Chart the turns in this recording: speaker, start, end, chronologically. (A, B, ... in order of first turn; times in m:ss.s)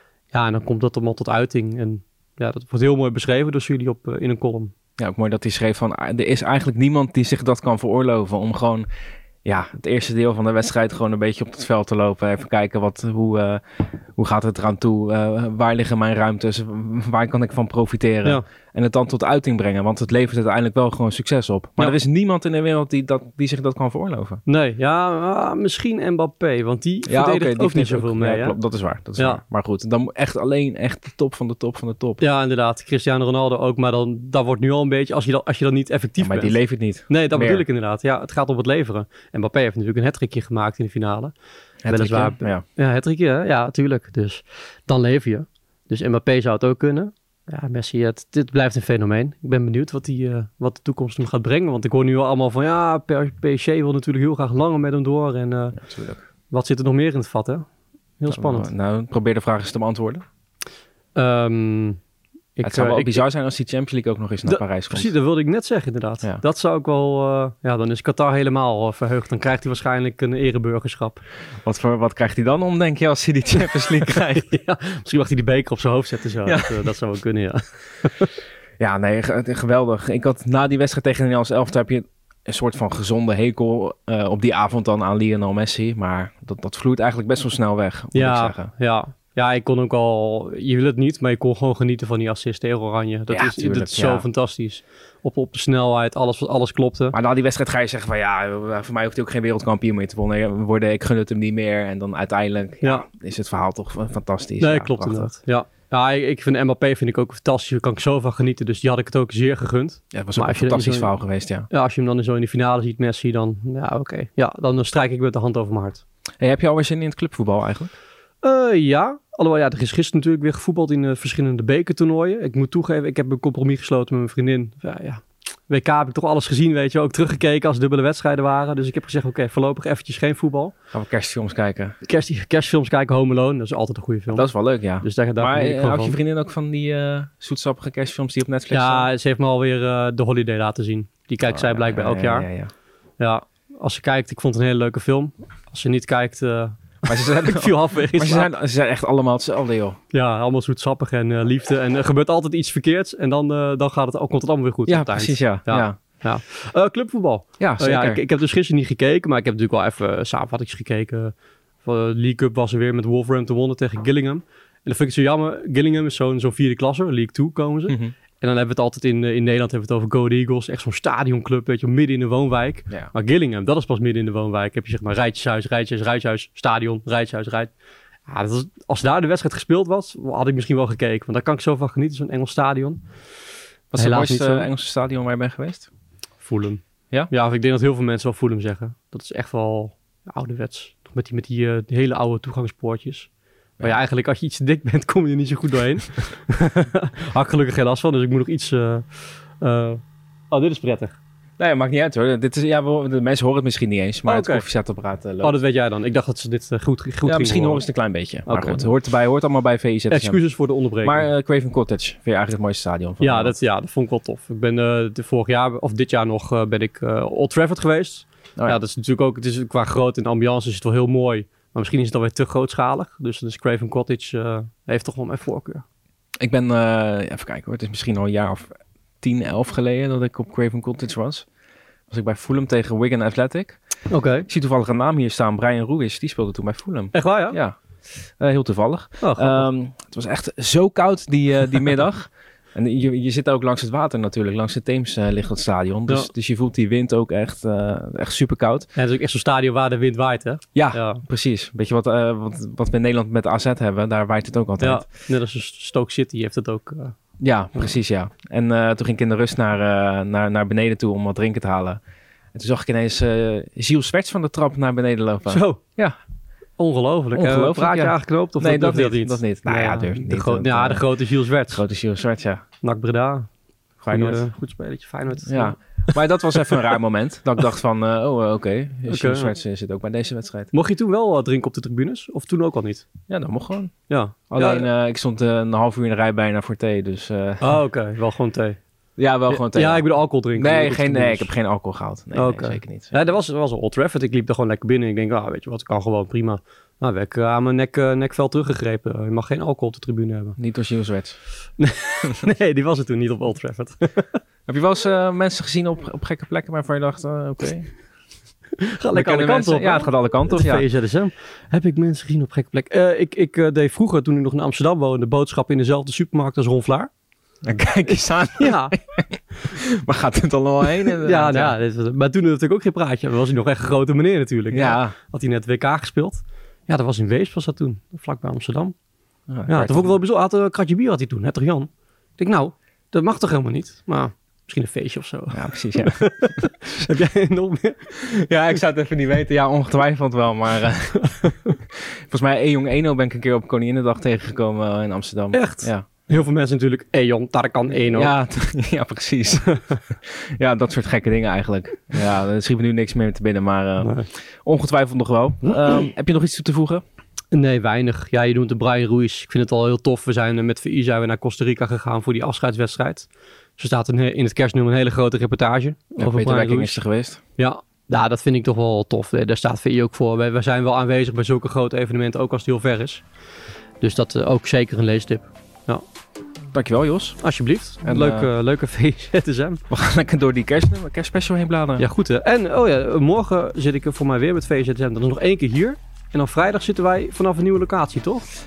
0:00.3-0:04.7 A
0:05.0-0:08.9 B
0:09.4-0:13.6 B
0:14.2-0:24.4 B
0:24.4-0:28.6 A
0:27.1-0:32.2 B
0:32.2-0:36.6 A
0:36.2-0:37.6 B
0:37.1-0:41.3 A
0:41.8-0:42.6 B
0:41.9-0:55.8 A
0:55.8-0:56.2 B
0:56.5-0:57.6 A
0:58.2-0:58.7 A
0:58.3-1:00.2 B
1:01.1-1:02.0 A
1:02.6-1:03.2 A
1:02.6-1:05.1 B
1:04.4-1:11.2 A
1:11.6-1:14.5 B
1:13.8-1:18.3 A
1:16.4-1:16.9 B
1:18.8-1:28.7 B
1:28.1-1:37.2 A
1:33.3-1:34.2 B
1:37.1-1:45.3 B
1:44.6-1:51.1 A
1:50.1-1:51.7 B
1:51.7-1:56.0 A
1:56.4-1:57.9 B
1:58.4-2:10.7 A
2:10.9-2:12.0 B
2:12.0-2:14.5 A
2:14.3-2:19.1 B
2:15.0-2:16.2 A
2:18.7-2:22.5 A
2:21.4-2:22.7 B
2:23.2-2:28.5 A
2:27.0-2:30.0 B
2:30.1-2:57.7 A
2:34.9-2:36.0 B
2:37.6-2:38.2 B
2:47.9-2:48.1 B
2:58.3-3:03.0 A
3:03.9-3:05.9 B
3:03.9-3:04.7 A
3:06.4-3:19.1 A
3:19.6-3:21.2 A
3:21.6-3:25.5 B
3:24.2-3:24.6 A
3:25.4-3:27.8 A
3:27.2-3:30.4 B
3:28.5-3:28.9 A
3:30.1-3:31.3 A
3:31.0-3:33.5 B
3:33.2-3:45.8 A
3:46.4-3:48.7 B
3:49.2-3:51.4 B
3:52.1-3:53.8 B
3:54.1-3:54.5 A
3:54.5-3:57.8 B
3:57.1-3:57.6 A
3:58.4-4:08.9 B
3:59.2-3:59.7 A
4:09.0-4:11.2 A
4:10.7-4:15.0 B
4:14.8-4:17.1 A
4:17.4-4:22.0 B
4:22.5-4:26.2 B
4:25.4-4:25.8 A
4:26.8-4:31.8 A
4:27.3-4:31.1 B
4:31.7-4:32.6 B
4:32.8-4:33.5 A
4:34.0-4:34.4 B
4:34.1-4:35.8 A
4:35.4-4:40.7 B
4:36.6-4:36.9 A
4:39.1-4:39.5 A
4:40.7-4:43.0 A
4:43.3-4:43.9 B
4:44.1-4:44.9 A
4:44.5-4:47.8 B
4:47.6-4:48.8 A
4:49.2-4:53.1 B
4:49.5-4:51.5 A
4:52.3-5:00.6 A
5:00.6-5:01.4 B
5:01.8-5:04.4 A
5:04.7-5:07.9 B
5:08.8-5:17.1 A
5:09.1-5:10.8 B
5:17.6-5:21.8 B
5:18.0-5:19.0 A
5:21.2-5:28.9 A
5:24.7-5:25.1 B
5:29.5-5:30.2 B
5:29.7-5:38.2 A
5:35.5-5:36.3 B
5:38.1-5:46.0 B
5:41.2-5:41.8 A
5:45.5-5:48.3 A
5:48.1-5:57.0 B
5:54.0-5:54.3 A
5:57.5-6:07.0 A
6:06.2-6:07.4 B
6:07.6-6:13.2 A
6:14.0-6:16.0 A
6:16.7-6:17.4 B
6:17.4-6:19.8 A
6:18.0-6:18.5 B
6:19.9-6:22.0 B
6:22.0-6:28.4 A